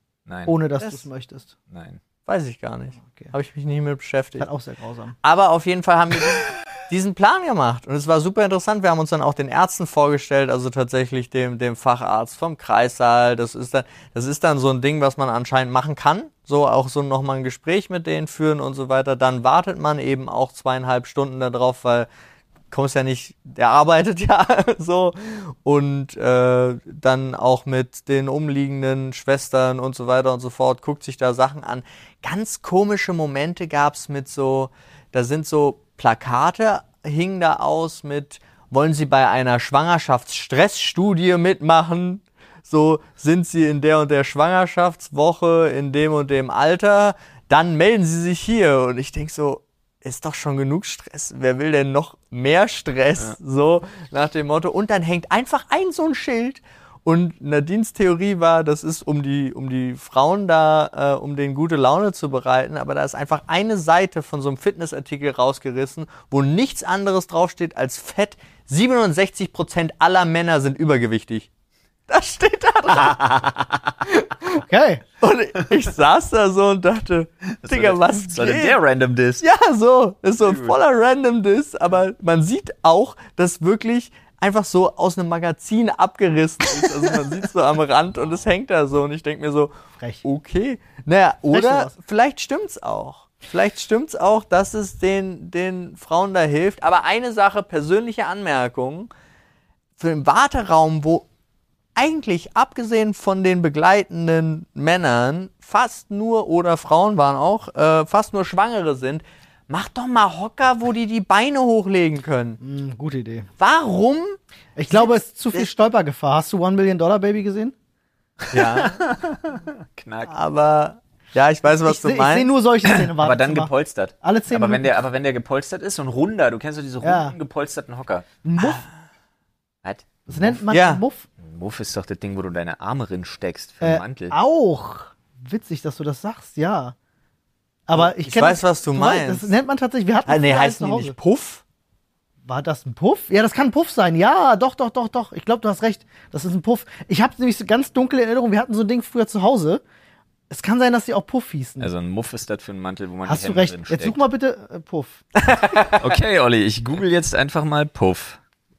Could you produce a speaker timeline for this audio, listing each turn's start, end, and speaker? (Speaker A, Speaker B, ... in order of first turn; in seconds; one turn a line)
Speaker A: 0.3-0.5
Speaker B: 0.5-1.5
Speaker A: 1.7-2.0
Speaker C: 2.3-4.5
Speaker B: 4.4-5.2
Speaker C: 5.2-22.1
Speaker C: 22.7-71.5
Speaker C: 72.1-73.5
Speaker A: 73.0-73.7
Speaker C: 74.0-74.6
Speaker B: 74.6-75.0
Speaker C: 75.2-78.8
Speaker A: 77.6-79.4
Speaker C: 79.4-89.7
Speaker A: 80.4-80.8
Speaker C: 90.2-99.1
Speaker B: 91.5-91.9
Speaker C: 100.0-101.3
Speaker C: 102.0-112.6
Speaker B: 112.6-113.5
Speaker C: 113.6-114.4
Speaker B: 114.8-117.7
Speaker A: 118.5-120.3
Speaker C: 118.5-119.0
Speaker C: 120.3-122.5
Speaker B: 121.8-124.9
Speaker A: 122.8-128.2
Speaker B: 127.0-127.3
Speaker B: 128.4-128.8
Speaker A: 129.8-130.6
Speaker B: 130.3-131.2
Speaker C: 130.7-131.0
Speaker A: 131.4-134.3
Speaker B: 133.8-136.9
Speaker B: 137.9-141.2
Speaker C: 137.9-139.5
Speaker C: 140.2-141.6
Speaker B: 142.4-149.8
Speaker B: 150.5-151.9
Speaker A: 151.8-154.2
Speaker B: 153.2-155.2
Speaker C: 155.4-156.0
Speaker A: 155.9-158.4